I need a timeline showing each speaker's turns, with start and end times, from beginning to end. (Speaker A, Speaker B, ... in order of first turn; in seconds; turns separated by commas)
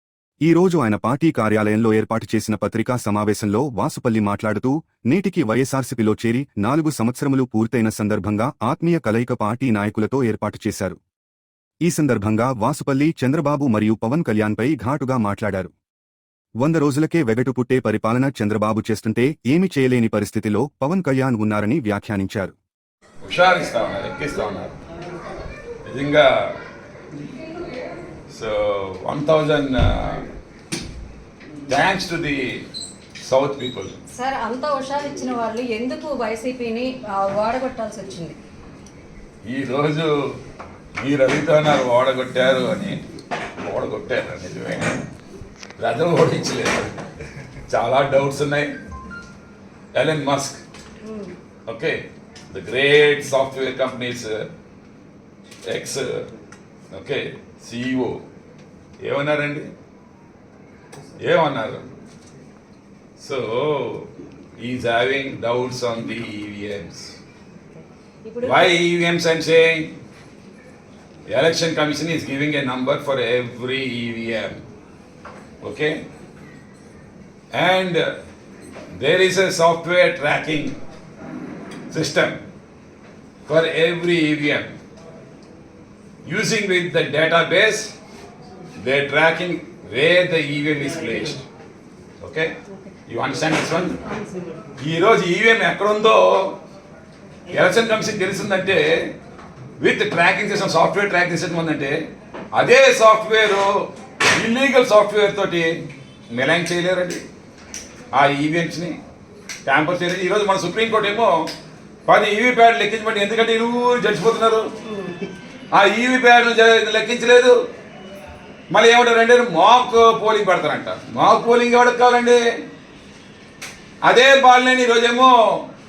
Speaker A: 0.4-11.0, Speaker A: 11.8-15.7, Speaker A: 16.6-22.5, Speaker B: 23.2-24.7, Speaker B: 25.9-26.3, Speaker B: 28.3-30.2, Speaker B: 31.7-32.4, Speaker B: 33.2-34.0, Speaker C: 34.1-38.4, Speaker B: 39.4-40.1, Speaker B: 41.0-43.0, Speaker B: 43.6-45.0, Speaker B: 45.8-47.0, Speaker B: 47.7-48.7, Speaker B: 49.9-50.6, Speaker C: 51.0-51.4, Speaker B: 51.7-52.0, Speaker B: 52.5-54.5, Speaker B: 55.7-56.2, Speaker B: 56.9-58.2, Speaker B: 59.0-59.7, Speaker B: 61.2-61.8, Speaker B: 63.2-67.2, Speaker C: 67.7-68.8, Speaker B: 68.4-69.9, Speaker B: 71.3-74.5, Speaker B: 75.6-76.0, Speaker B: 77.5-78.1, Speaker B: 78.9-80.7, Speaker B: 81.9-82.4, Speaker B: 83.5-84.7, Speaker B: 86.2-87.9, Speaker B: 88.8-91.4, Speaker B: 92.2-92.5, Speaker C: 92.7-93.0, Speaker B: 93.1-94.0, Speaker C: 94.0-94.6, Speaker B: 94.8-96.6, Speaker B: 97.5-98.9, Speaker B: 99.8-102.0, Speaker B: 102.5-103.7, Speaker B: 104.3-105.7, Speaker B: 106.3-107.2, Speaker B: 108.1-109.0, Speaker B: 109.7-111.3, Speaker B: 112.0-114.7, Speaker C: 114.8-115.2, Speaker B: 115.7-117.6, Speaker B: 118.7-122.4, Speaker B: 124.0-125.4